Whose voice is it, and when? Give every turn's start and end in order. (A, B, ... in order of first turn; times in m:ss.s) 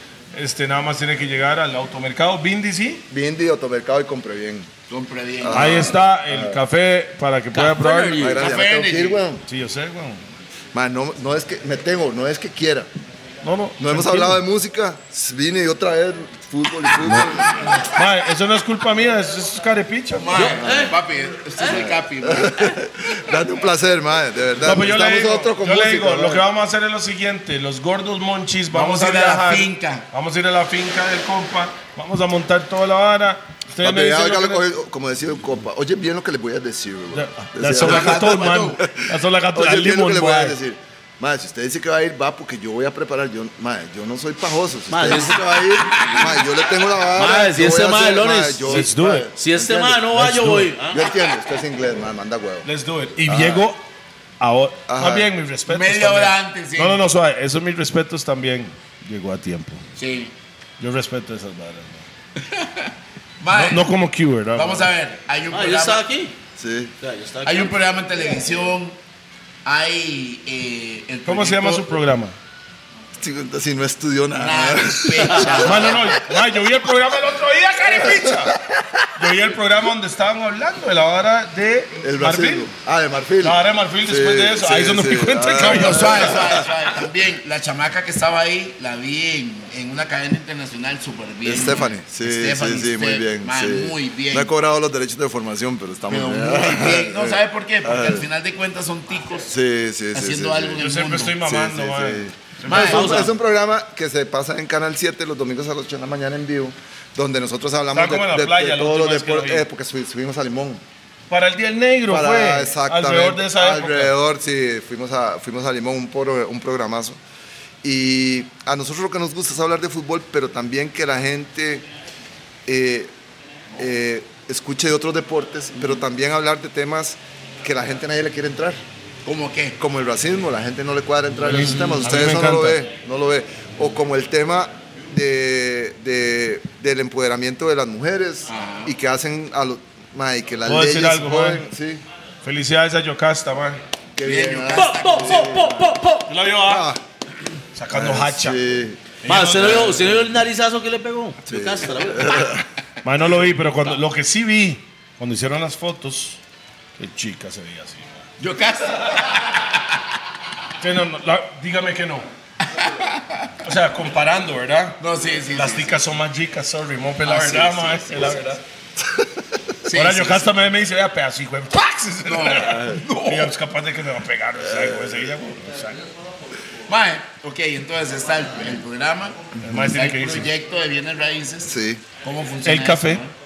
0:00.3-0:03.0 A
0:03.1-0:04.7 B
0:04.9-0:06.0 C
0:05.4-0:06.6 B
0:05.5-0:08.3 A
0:07.5-0:08.5 D
0:08.2-0:09.4 B
0:08.3-0:09.2 C
0:09.5-0:10.2 A
0:10.7-0:12.9 B
0:13.4-0:14.4 A
0:13.8-0:17.8 B
0:17.9-0:20.6 A
0:20.2-0:22.8 C
0:20.3-0:21.0 D
0:20.6-0:20.9 B
0:21.6-0:21.8 D
0:21.6-0:26.4 B
0:24.6-0:34.6 A
0:28.7-0:30.0 C
0:33.8-0:50.1 B
0:37.1-0:40.6 A
0:37.8-0:38.8 C
0:44.9-0:45.4 D
0:45.3-0:46.5 C
0:47.2-0:51.1 D
0:48.6-0:49.3 A
0:50.1-0:50.7 A
0:50.9-0:52.7 B
0:52.6-0:53.8 A
0:53.2-0:53.6 B
0:54.4-0:59.8 A
0:54.9-0:55.3 B
0:55.7-0:57.0 C
1:00.0-1:00.3 C
1:00.8-1:02.0 A
1:02.4-1:03.9 C
1:03.5-1:04.9 A
1:04.5-1:06.0 C
1:05.5-1:06.3 D
1:06.6-1:06.9 B
1:07.0-1:07.8 D
1:07.4-1:09.0 C
1:09.6-1:11.8 C
1:11.2-1:12.3 A
1:13.2-1:16.2 B
1:14.4-1:16.0 C
1:15.3-1:15.6 D
1:15.5-1:18.6 A
1:17.9-1:19.0 B
1:19.1-1:22.7 A
1:22.0-1:26.7 B
1:23.4-1:26.7 A
1:25.6-1:34.5 C
1:31.4-1:38.3 B
1:36.1-1:39.5 C
1:39.5-1:40.8 B
1:40.1-1:41.4 C
1:40.8-1:43.0 A
1:41.4-1:50.8 B
1:42.6-1:43.3 C
1:42.7-1:43.3 D
1:47.9-1:49.6 A
1:51.3-1:54.1 A
1:52.1-1:57.2 B
1:57.8-2:01.8 B
2:02.6-2:03.1 B
2:03.8-2:08.8 B
2:09.2-2:09.8 C
2:09.8-2:22.0 B
2:11.4-2:12.8 A
2:18.5-2:18.9 C
2:20.6-2:21.6 A
2:22.4-2:23.8 A
2:24.2-2:25.9 B
2:24.2-2:25.6 C
2:24.7-2:26.3 D
2:26.3-2:26.9 A
2:26.6-2:27.0 B
2:27.7-2:28.6 A
2:27.9-2:29.0 B
2:29.2-2:30.3 A
2:29.2-2:32.5 D
2:31.5-2:32.7 B
2:33.0-2:36.4 A
2:37.0-2:38.1 A
2:38.4-2:39.8 C
2:40.8-2:42.2 A
2:42.7-2:43.5 C
2:43.6-2:48.6 A
2:45.0-2:46.0 C
2:47.2-2:48.4 C
2:49.8-2:50.5 C
2:49.9-2:56.0 A
2:52.2-2:53.5 C
2:52.6-2:53.0 B
2:54.7-2:55.2 B
2:56.9-3:03.3 C
2:59.6-3:00.5 A
3:01.6-3:02.0 B
3:02.6-3:03.2 A